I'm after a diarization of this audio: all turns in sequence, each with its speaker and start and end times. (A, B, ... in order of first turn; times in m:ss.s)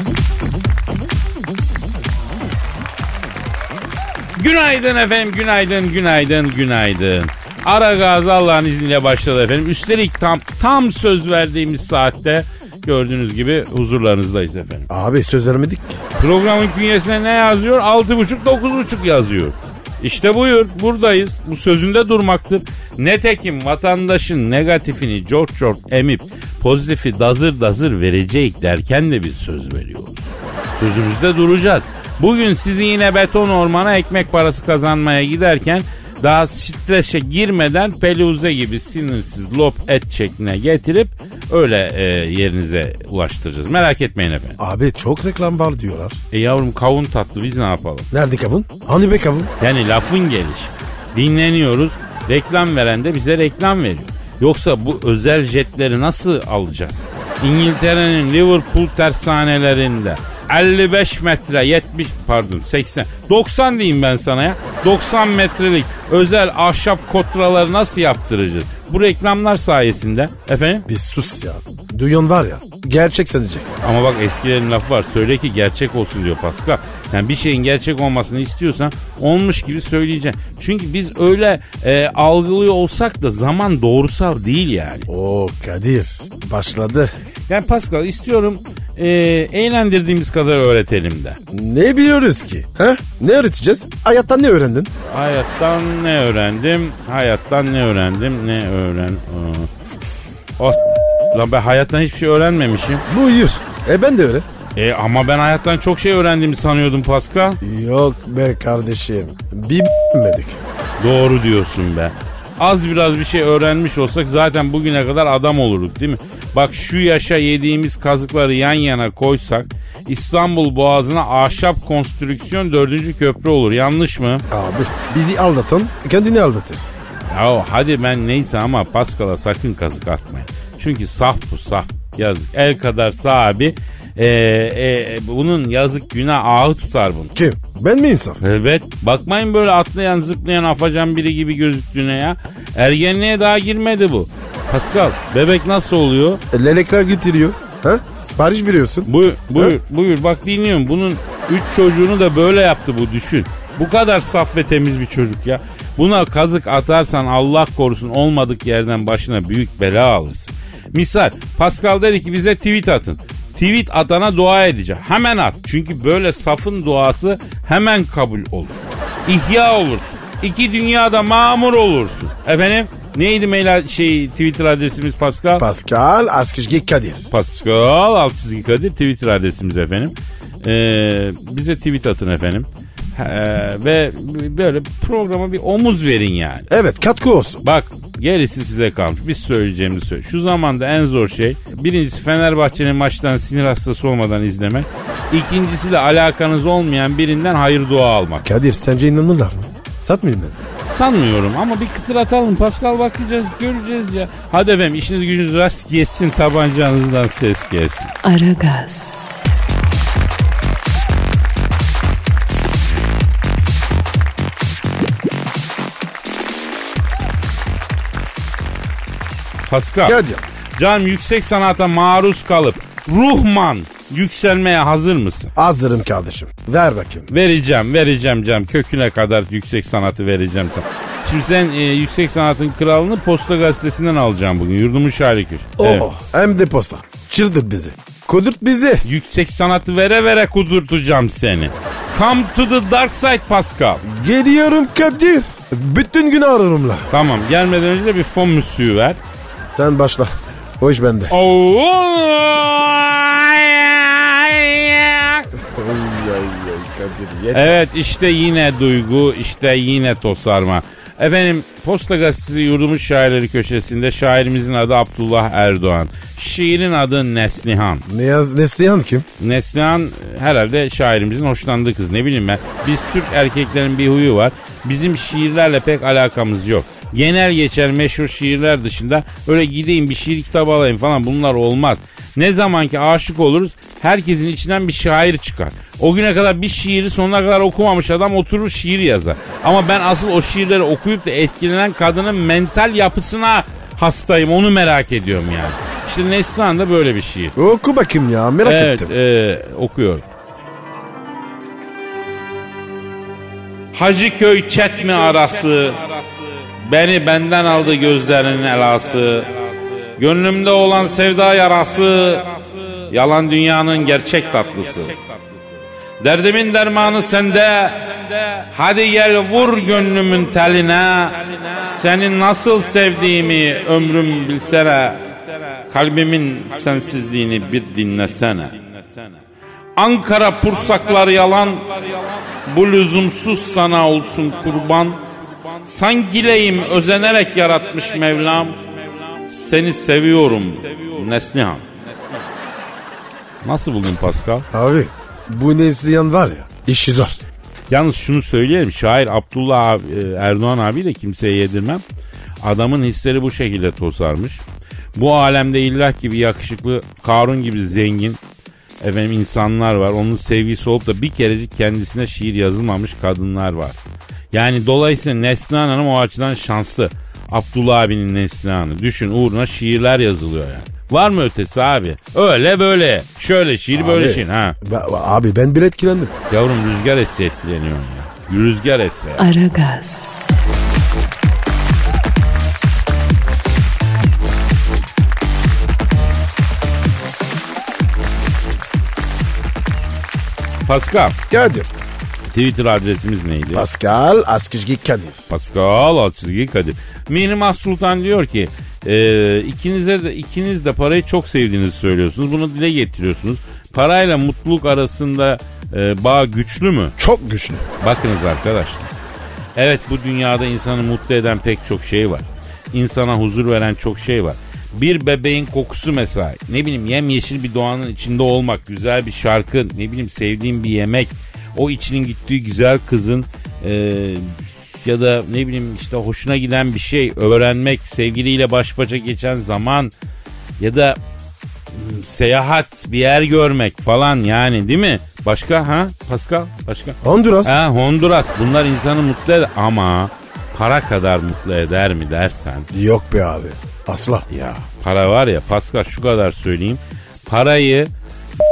0:04.4-0:14.9 A
0:14.9-0:16.0 B
0:16.2-0:44.6 A
0:44.6-0:46.2 B
0:46.3-0:48.1 A
0:48.1-0:49.5 B
0:49.6-1:10.8 A
1:10.9-1:13.7 B
1:13.8-1:25.1 A
1:25.1-1:27.1 B
1:27.5-1:31.4 A
1:31.5-1:34.9 B
1:35.1-1:39.7 A
1:40.6-1:43.0 A
1:43.1-1:44.4 B
1:44.8-1:47.6 A
1:47.6-1:50.6 B
1:51.0-2:04.4 A
2:04.5-2:06.9 B
2:07.3-2:17.3 A
2:17.3-2:18.4 B
2:18.4-2:26.4 A
2:26.5-2:29.8 B
2:29.1-2:55.6 A
2:55.6-2:57.3 B
2:57.3-3:06.6 A
3:06.7-3:07.6 B
3:07.6-3:18.4 A
3:18.4-3:20.6 B
3:20.9-3:28.1 A
3:28.2-3:29.2 C
3:39.7-3:40.2 A
3:40.0-3:40.4 B
3:40.8-3:45.5 A
3:45.6-3:47.3 B
3:47.3-3:56.1 A
3:55.8-3:59.0 B
3:59.0-4:04.0 A
4:04.0-4:07.1 B
4:07.1-4:09.2 A
4:09.7-4:11.3 B
4:11.3-4:15.5 A
4:15.6-4:17.8 B
4:17.5-4:28.0 A
4:28.1-4:29.3 B
4:29.4-4:57.6 A
4:57.6-4:59.1 B
4:58.6-5:00.2 A
5:03.9-5:06.2 A
5:06.8-5:09.6 A
5:10.2-5:15.7 A
5:16.2-5:25.3 A
5:25.9-5:29.4 A
5:30.0-5:35.2 A
5:35.8-5:42.4 A
5:43.6-5:44.7 A
5:44.7-5:47.4 B
5:47.9-5:52.0 A
5:52.6-5:54.6 A
5:55.2-5:58.4 A
5:59.0-6:04.0 A
6:04.5-6:14.8 A
6:13.9-6:16.3 B
6:16.5-6:19.4 A
6:19.4-6:20.4 C
6:30.8-6:31.4 A
6:31.5-6:31.9 B
6:32.5-6:33.9 A
6:33.7-6:35.4 B
6:35.5-6:47.2 A
6:47.2-6:47.8 B
6:48.0-6:49.1 A
6:49.7-7:10.1 A
7:10.8-7:11.2 A
7:11.9-7:22.9 A
7:17.2-7:17.8 B
7:22.9-7:24.4 B
7:24.5-7:28.1 A